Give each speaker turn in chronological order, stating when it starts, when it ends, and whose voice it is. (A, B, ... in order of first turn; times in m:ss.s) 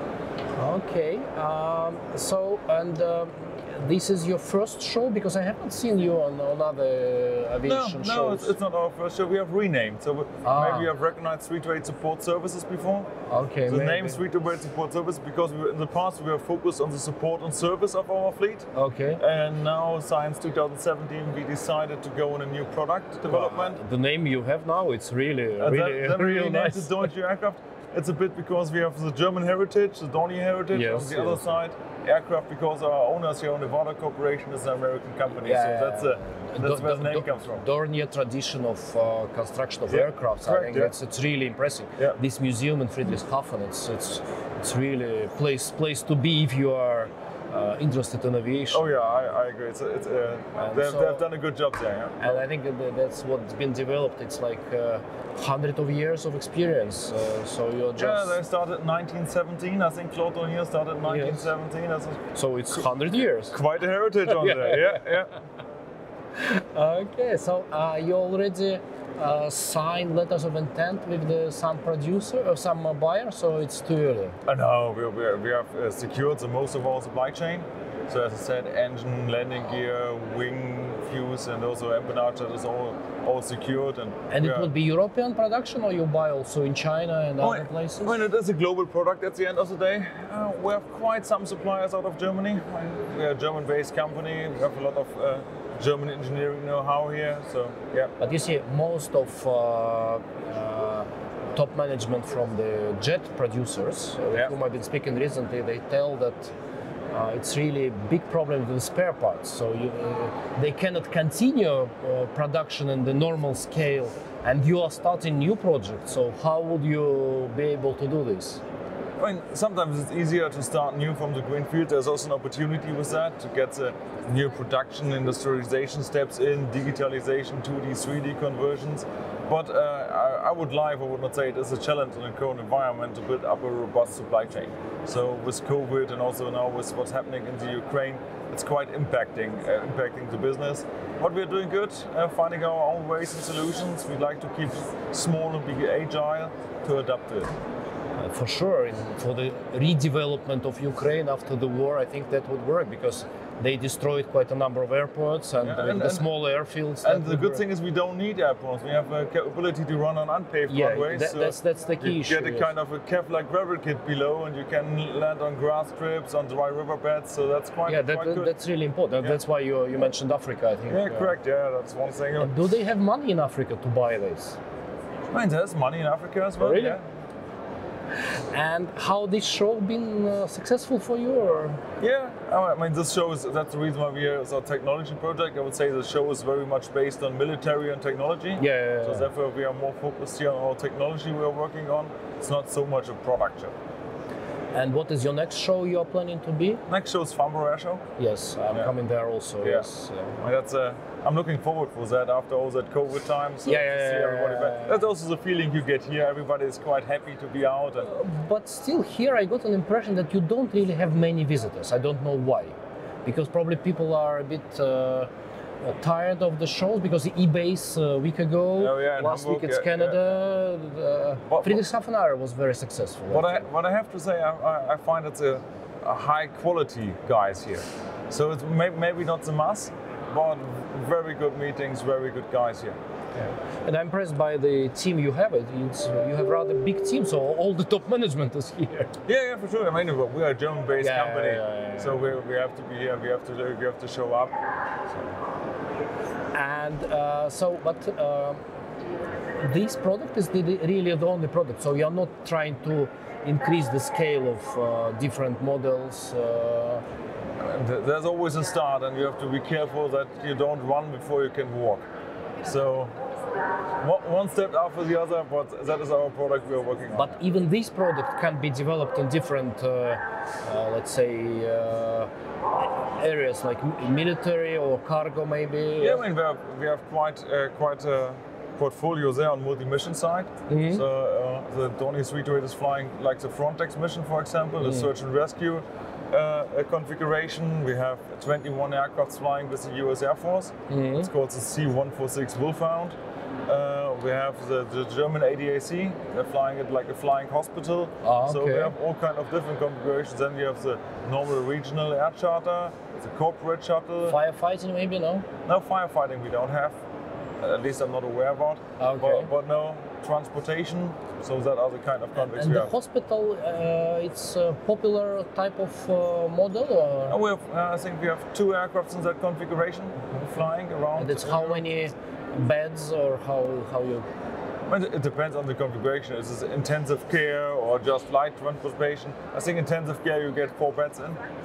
0:00.5-0:08.5 A
0:07.6-0:13.1 B
0:10.4-0:10.9 A
0:13.3-0:14.2 A
0:13.7-0:23.8 B
0:18.7-0:19.2 A
0:23.3-0:27.1 A
0:25.6-0:37.6 B
0:30.7-0:31.6 A
0:35.4-0:48.9 A
0:39.9-0:40.9 B
0:48.7-0:52.4 B
0:50.6-0:51.2 A
0:52.2-0:58.4 A
0:58.0-1:02.2 B
1:01.0-1:01.5 A
1:02.3-1:03.6 A
1:03.5-1:05.3 B
1:04.2-1:05.1 A
1:06.4-1:14.4 A
1:14.4-1:24.7 B
1:24.3-1:28.2 A
1:27.4-1:38.1 B
1:38.2-1:46.5 A
1:47.1-1:58.6 A
1:59.2-2:27.5 B
2:28.2-2:37.6 A
2:35.6-2:36.3 B
2:37.0-2:48.5 B
2:40.7-2:42.7 A
2:47.9-2:51.3 A
2:50.9-2:52.5 B
2:52.4-2:54.6 A
2:55.3-2:57.0 B
2:56.6-2:57.0 A
2:58.5-3:01.8 A
3:02.0-3:13.7 B
3:08.6-3:09.3 A
3:14.7-3:16.8 A
3:16.9-3:18.0 B
3:18.2-3:20.4 A
3:19.6-3:19.9 B
3:20.4-3:28.1 B
3:23.6-3:25.1 A
3:28.0-3:35.3 A
3:35.8-3:43.7 A
3:38.8-3:40.2 B
3:41.5-3:41.8 B
3:43.3-3:53.0 B
3:53.3-3:59.1 A
3:59.3-4:04.6 B
4:01.0-4:02.3 A
4:06.5-4:08.6 A
4:09.6-4:17.0 A
4:17.6-4:22.1 B
4:22.6-4:23.1 B
4:24.0-4:27.5 B
4:27.1-4:32.3 A
4:32.8-4:36.2 A
4:36.0-5:04.4 B
4:40.7-4:41.0 A
4:44.8-4:45.1 A
4:50.9-4:51.3 A
4:58.2-4:58.9 A
5:04.3-5:05.4 A
5:05.6-5:07.0 B
5:07.6-5:12.9 B
5:09.0-5:09.5 A
5:12.4-5:17.4 A
5:17.3-5:21.8 B
5:21.2-5:24.3 A
5:24.9-5:31.4 B